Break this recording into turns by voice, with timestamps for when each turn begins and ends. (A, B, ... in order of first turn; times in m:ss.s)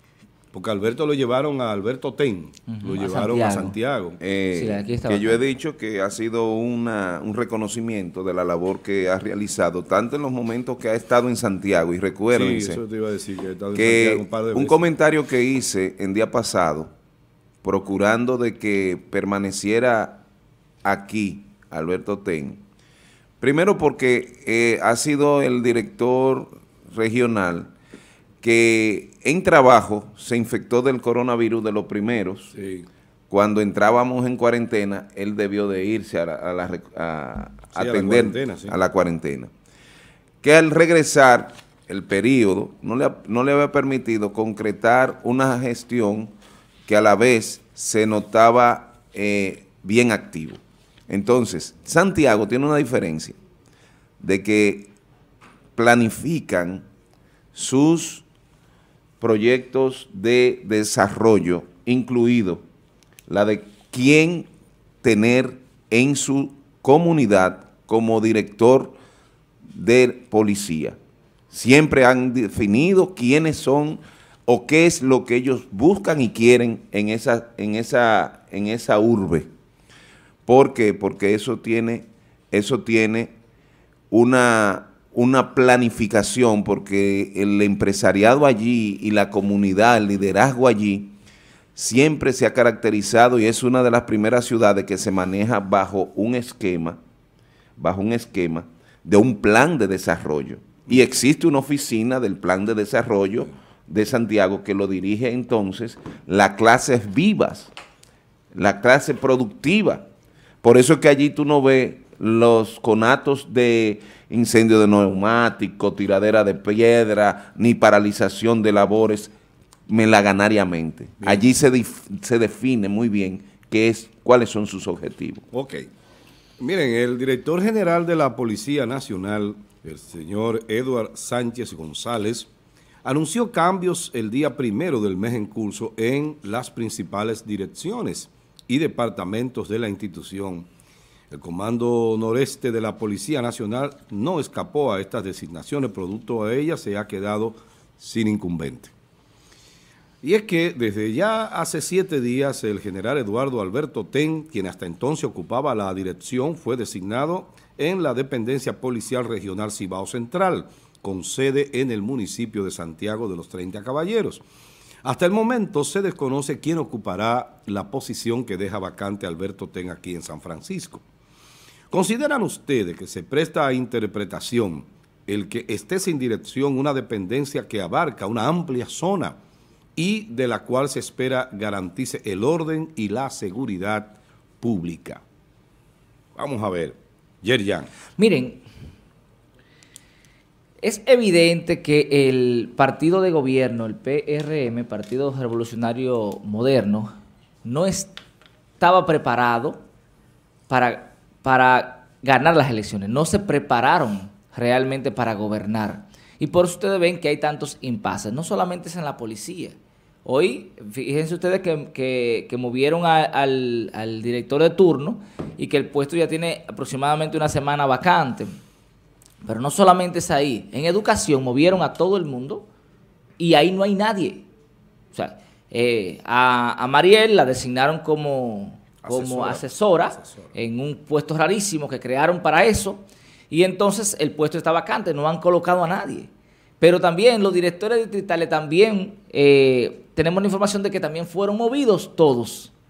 0:00.5-0:04.2 A
0:02.7-0:03.8 B
0:04.2-0:12.8 C
0:04.5-0:05.4 B
0:12.3-0:14.8 A
0:13.8-0:16.9 C
0:17.6-0:20.2 C
0:20.8-0:22.6 C
0:23.4-0:27.7 C
0:28.4-0:32.5 C
0:32.6-0:32.9 A
0:33.3-0:39.5 C
0:37.7-0:38.8 A
0:40.4-0:46.3 C
0:46.9-0:53.4 C
0:54.2-0:54.9 C
0:55.8-0:56.8 C
0:57.5-0:58.2 C
0:59.2-1:02.6 C
1:03.3-1:04.5 C
1:05.0-1:09.0 C
1:09.7-1:11.0 C
1:11.5-1:19.5 C
1:20.5-1:23.3 C
1:24.1-1:31.1 C
1:31.8-1:37.0 C
1:37.8-1:47.7 C
1:48.5-1:50.0 C
1:50.6-1:59.3 C
1:59.9-2:05.4 C
2:05.5-2:05.9 A
2:06.6-2:12.5 A
2:13.0-2:20.7 A
2:21.3-2:28.9 A
2:30.2-2:44.4 A
2:45.0-2:51.0 A
2:51.9-2:59.4 A
3:00.0-3:05.2 A
3:06.4-3:07.9 A
3:08.2-3:08.6 B
3:10.8-3:18.2 B
3:18.8-3:19.8 B
3:20.7-3:38.6 B
3:39.4-3:42.7 B
3:43.4-3:44.5 B
3:45.1-3:56.3 B
3:49.0-3:50.5 A
3:56.8-4:02.7 B